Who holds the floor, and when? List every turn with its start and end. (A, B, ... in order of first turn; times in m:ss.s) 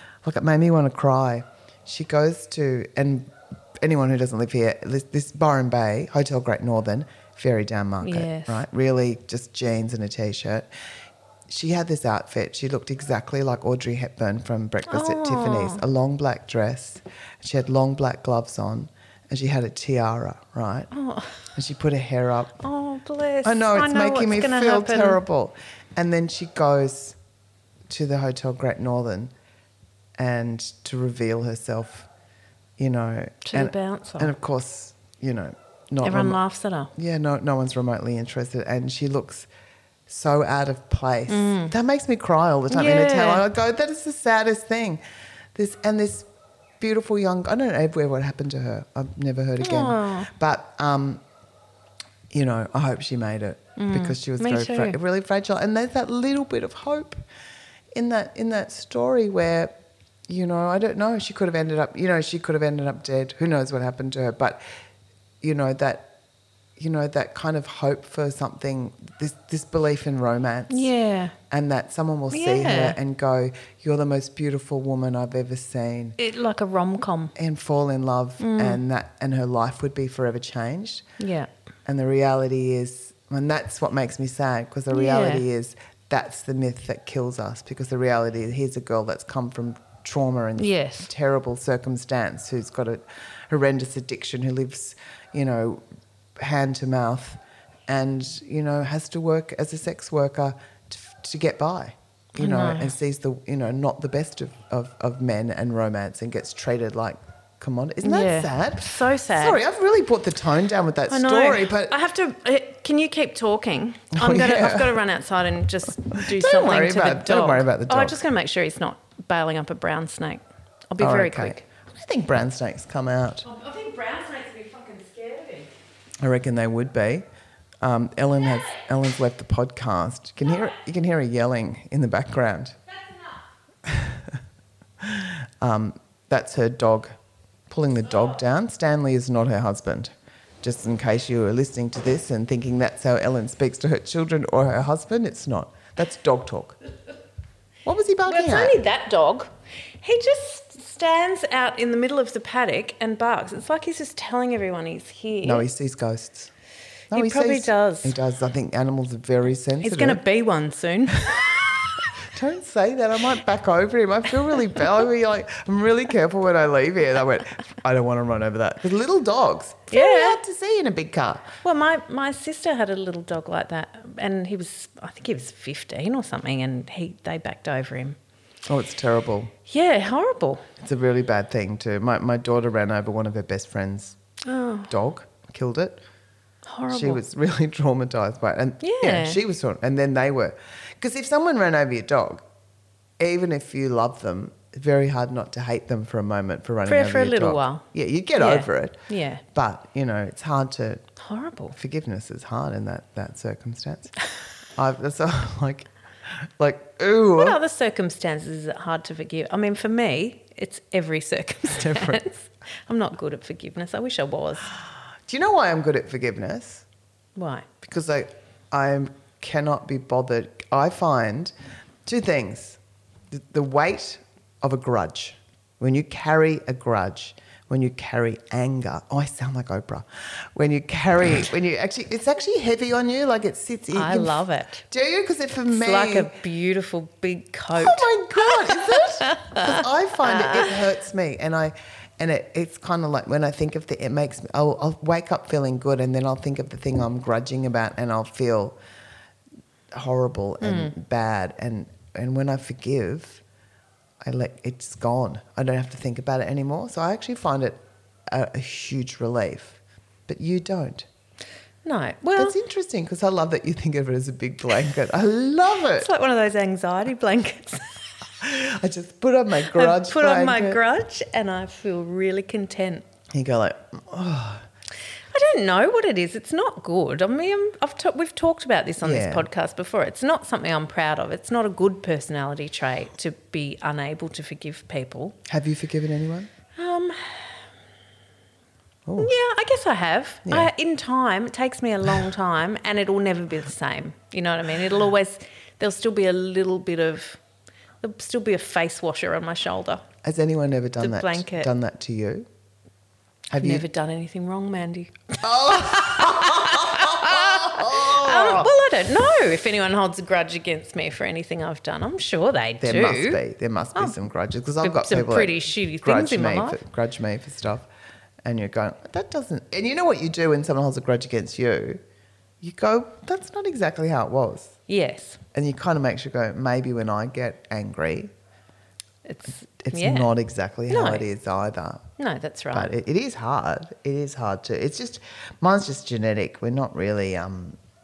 0:00.2-0:10.7 A
0:08.0-0:08.6 B
0:11.5-0:20.9 A
0:14.9-0:15.8 B
0:20.9-0:21.4 B
0:21.5-0:22.6 A
0:22.6-0:25.2 B
0:23.4-0:27.2 A
0:27.9-0:29.3 A
0:30.2-0:32.1 A
0:32.8-0:36.4 A
0:33.4-0:34.3 B
0:36.0-0:36.9 B
0:37.0-0:39.5 A
0:40.1-0:45.0 A
0:41.3-0:41.7 B
0:42.7-0:43.5 B
0:45.6-0:46.3 A
0:46.8-0:51.2 A
0:49.6-0:50.3 B
0:52.3-0:57.2 A
0:53.8-0:55.0 B
0:57.9-0:59.8 A
1:00.3-1:04.6 A
1:05.4-1:06.1 A
1:06.8-1:10.9 A
1:10.7-1:11.4 B
1:11.5-1:16.2 A
1:12.3-1:13.0 B
1:16.2-1:17.3 B
1:17.4-1:21.0 A
1:18.4-1:18.8 B
1:21.2-1:21.5 B
1:21.9-1:35.8 A
1:24.9-1:25.4 B
1:30.6-1:31.1 B
1:36.4-1:51.9 A
1:42.4-1:42.9 B
1:48.0-1:49.6 B
1:51.1-2:01.6 B
1:54.2-1:55.0 A
1:56.2-1:58.2 A
2:01.0-2:03.5 A
2:03.4-2:05.7 B
2:06.2-2:07.2 A
2:07.8-2:12.8 A
2:13.0-2:13.4 B
2:13.8-2:14.4 A
2:15.0-2:17.2 A
2:17.7-2:26.8 A
2:27.8-2:28.8 A
2:28.3-2:29.5 B
2:30.0-2:35.6 B
2:35.4-2:36.5 A
2:37.1-2:40.2 A
2:37.1-2:38.2 B
2:39.8-2:41.8 B
2:42.2-2:51.6 A
2:49.9-2:50.4 B
2:51.6-2:58.2 B
2:58.7-2:59.5 A
2:59.7-3:00.7 B
3:00.8-3:04.2 A
3:04.4-3:04.9 B
3:04.9-3:06.0 A
3:06.7-3:07.2 B
3:06.9-3:12.4 A
3:08.8-3:09.4 B
3:13.2-3:21.0 A
3:16.8-3:17.8 B
3:18.4-3:19.4 B
3:21.2-3:21.8 B
3:21.7-3:24.1 A
3:24.8-3:27.6 A
3:27.4-3:34.7 B
3:31.7-3:32.2 A
3:35.3-3:36.8 A
3:37.4-3:37.7 B
3:37.8-3:41.5 A
3:42.1-3:42.8 A
3:43.3-3:56.3 A
3:53.9-3:54.8 B
3:55.7-4:00.7 B
3:57.8-4:08.8 A
4:09.9-4:13.4 A
4:10.6-4:11.0 B
4:14.2-4:21.1 A
4:21.8-4:22.6 B
4:22.4-4:26.1 A
4:26.0-4:28.0 B
4:28.4-4:30.8 A
4:29.7-4:33.0 B
4:33.3-4:34.7 A
4:35.3-4:45.4 B
4:39.0-4:39.5 A
4:45.5-4:46.5 A
4:46.8-4:47.5 B
4:49.1-4:49.3 A
4:49.2-4:57.4 B
4:50.5-4:50.7 A
4:58.0-5:00.0 B
5:00.2-5:02.5 A
5:01.0-5:01.7 B
5:03.5-5:03.9 A
5:03.6-5:13.4 B
5:05.4-5:08.7 A
5:12.8-5:17.9 A
5:14.8-5:16.8 B
5:18.4-5:22.0 A
5:22.6-5:24.8 A
5:24.9-5:25.4 B
5:25.5-5:28.3 A
5:29.3-5:30.3 B
5:29.8-5:32.0 A
5:30.9-5:31.3 B
5:32.2-5:32.9 B
5:32.7-5:37.8 A